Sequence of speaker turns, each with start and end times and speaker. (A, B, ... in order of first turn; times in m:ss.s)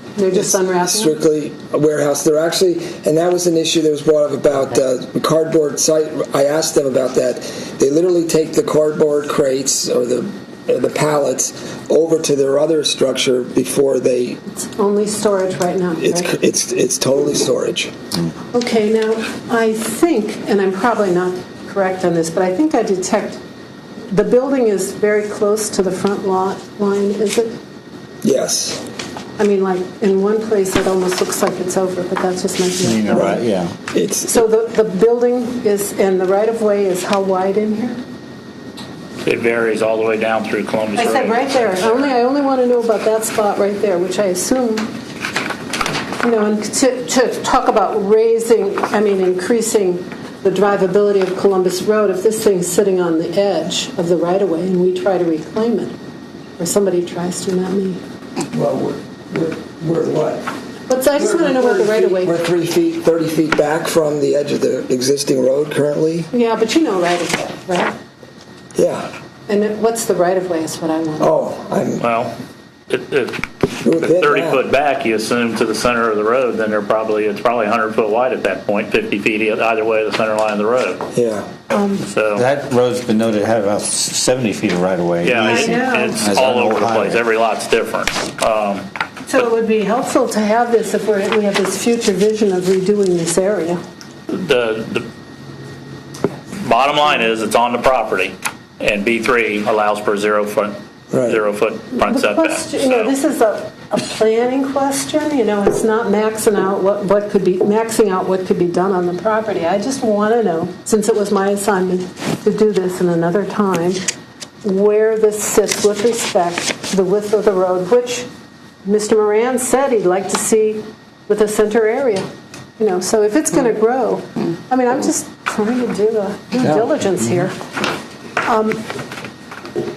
0:00.2-0:01.2 A
0:00.3-0:14.4 B
0:14.5-0:16.3 A
0:16.0-0:17.9 B
0:18.5-0:23.4 A
0:24.1-0:27.6 A
0:28.2-0:28.8 B
0:29.4-0:33.4 A
0:32.8-0:33.8 C
0:33.1-0:33.4 B
0:33.9-0:34.5 B
0:34.2-0:38.0 A
0:39.2-0:42.1 D
0:41.0-0:44.9 A
0:46.2-0:56.0 A
0:56.6-0:58.0 A
0:58.5-1:00.5 B
1:00.9-1:02.4 A
1:01.2-1:06.3 B
1:06.3-1:08.0 A
1:08.8-1:09.1 B
1:09.5-1:11.3 A
1:11.2-1:12.1 B
1:12.0-1:12.3 D
1:12.9-1:21.0 D
1:13.8-1:14.6 B
1:21.1-1:21.5 B
1:21.7-1:22.0 A
1:22.1-1:22.4 D
1:22.3-1:27.2 C
1:25.2-1:28.9 D
1:25.4-1:26.3 A
1:29.3-1:33.8 A
1:34.3-1:35.1 D
1:36.6-1:43.1 D
1:41.1-1:41.4 B
1:42.0-1:54.0 A
1:54.6-1:58.2 A
1:58.8-2:02.3 A
2:02.8-2:07.6 A
2:08.4-2:08.8 A